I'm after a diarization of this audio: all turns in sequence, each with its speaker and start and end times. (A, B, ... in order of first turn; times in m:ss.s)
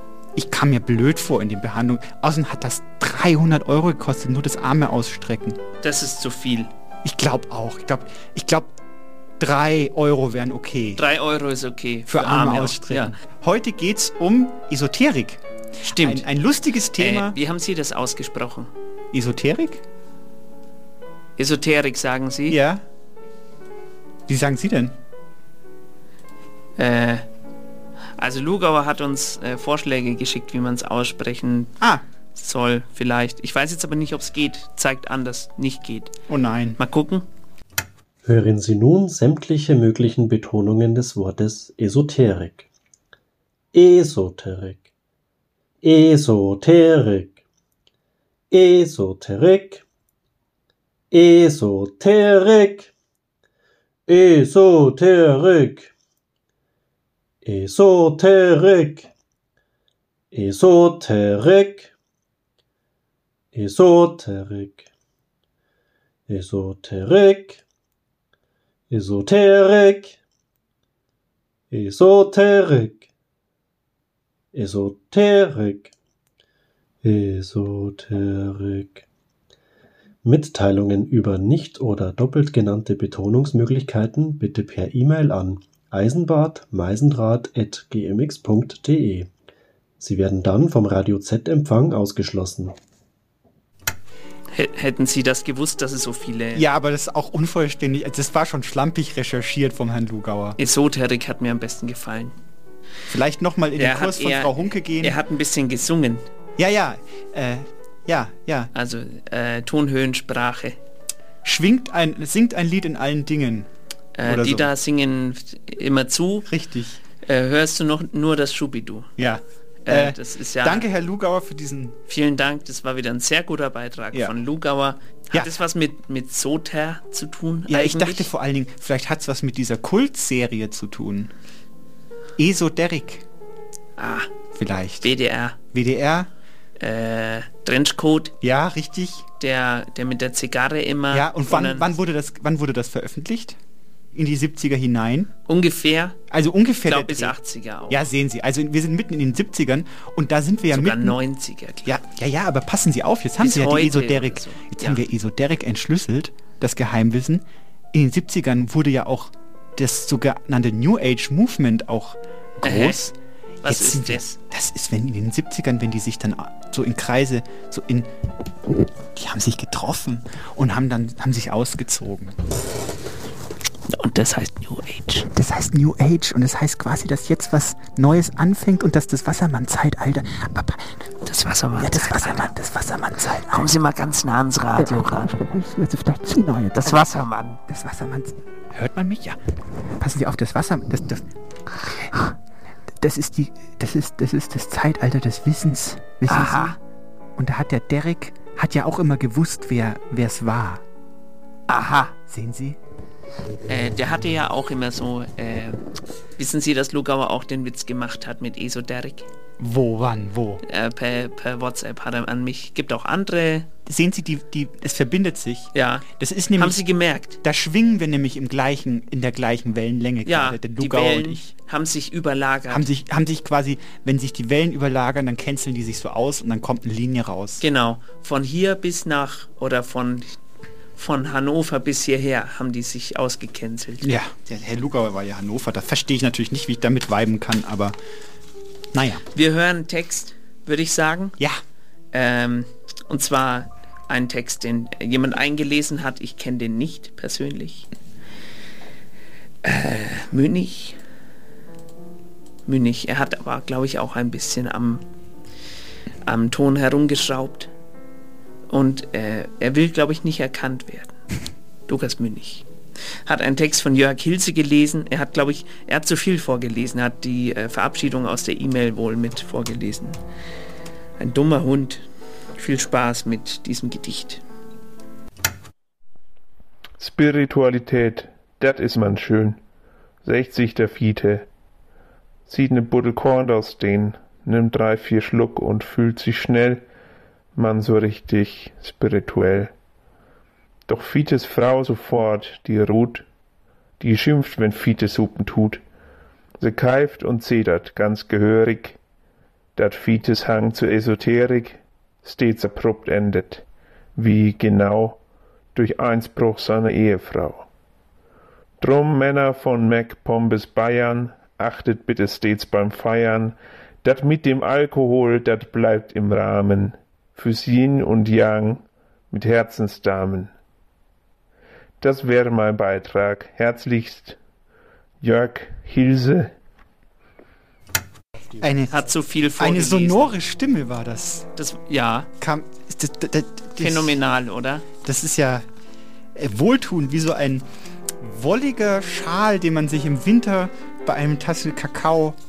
0:00.4-0:05.6 A
0:05.8-0:06.7 B
0:07.0-0:08.7 A
0:09.4-0:11.0 A
0:11.0-0:13.1 B
0:12.1-0:17.4 A
0:15.9-0:16.2 B
0:17.0-0:18.7 B
0:19.1-0:19.8 A
0:21.4-0:22.6 B
0:22.5-0:22.8 A
0:24.3-0:25.0 A
0:26.8-0:27.2 B
0:28.2-0:31.7 B
0:32.4-0:36.1 B
0:36.3-0:36.8 A
0:36.8-0:37.3 B
0:38.2-0:42.7 C
0:43.7-0:44.9 C
0:45.8-0:47.4 C
0:48.5-0:49.8 C
0:51.1-0:52.9 C
0:54.1-0:55.9 C
0:57.4-0:59.1 C
1:00.3-1:01.9 C
1:03.5-1:04.9 C
1:06.3-1:07.6 C
1:08.9-1:10.2 C
1:11.7-1:13.1 C
1:14.5-1:15.9 C
1:17.0-1:19.0 C
1:20.2-1:29.3 C
1:30.0-1:32.8 C
1:34.5-1:36.6 B
1:36.5-1:40.6 A
1:40.6-1:42.3 B
1:43.1-1:45.2 A
1:43.8-1:46.2 B
1:46.6-1:48.7 A
1:48.7-1:50.8 B
1:51.4-1:53.7 A
1:54.2-1:56.5 B
1:54.2-1:54.7 A
1:56.5-1:57.0 A
1:57.2-1:59.1 B
1:59.2-2:02.0 A
1:59.8-2:00.9 B
2:02.1-2:08.3 B
2:07.7-2:11.3 A
2:12.4-2:13.2 A
2:14.0-2:14.3 B
2:14.6-2:15.1 A
2:15.0-2:15.6 B
2:15.7-2:16.3 A
2:16.8-2:18.3 B
2:18.4-2:19.3 A
2:19.4-2:21.9 B
2:21.1-2:23.6 A
2:24.1-2:25.3 A
2:25.5-2:26.2 B
2:26.3-2:27.4 A
2:26.9-2:28.0 B
2:27.9-2:31.2 A
2:30.7-2:32.0 B
2:31.8-2:48.1 A
2:33.4-2:35.0 B
2:42.6-2:43.0 B
2:43.6-2:44.4 B
2:49.1-2:52.4 A
2:53.9-2:55.3 B
2:55.3-3:01.0 A
3:01.2-3:02.5 B
3:01.8-3:03.7 A
3:03.5-3:05.4 B
3:04.8-3:07.1 A
3:06.8-3:07.6 B
3:07.7-3:09.4 A
3:10.0-3:11.2 A
3:11.8-3:12.3 A
3:13.0-3:16.8 A
3:16.3-3:16.8 B
3:17.4-3:20.8 A
3:21.7-3:22.2 B
3:22.3-3:22.8 A
3:23.7-3:25.8 B
3:26.4-3:29.3 B
3:29.6-3:30.6 A
3:30.6-3:33.7 B
3:33.9-3:36.8 A
3:35.7-3:37.4 B
3:37.4-3:41.5 A
3:40.2-3:42.9 B
3:42.7-3:47.6 A
3:47.6-3:50.4 B
3:51.0-3:54.2 B
3:54.0-3:58.0 A
3:58.9-3:59.2 A
3:59.3-4:01.4 B
4:02.1-4:07.9 B
4:09.6-4:11.0 B
4:12.7-4:15.0 B
4:16.2-4:17.7 B
4:18.7-4:21.2 B
4:21.9-4:22.7 B
4:23.3-4:30.2 B
4:31.2-4:32.0 B
4:32.6-4:34.4 B
4:37.0-4:39.6 D
4:40.2-4:41.5 D
4:42.5-4:46.8 D
4:47.6-4:49.7 D
4:50.9-4:53.2 D
4:54.0-4:55.8 D
4:56.6-4:59.0 D
4:59.8-5:03.6 D
5:04.2-5:05.2 D
5:05.8-5:07.7 D
5:08.8-5:20.5 D
5:22.0-5:24.4 D
5:25.2-5:26.5 D
5:28.6-5:28.9 A
5:28.9-5:30.4 B
5:29.6-5:31.5 A
5:31.6-5:32.3 B
5:32.4-5:34.2 A
5:33.8-5:34.9 B
5:35.0-5:35.7 A
5:36.4-5:37.7 A
5:38.2-5:42.4 A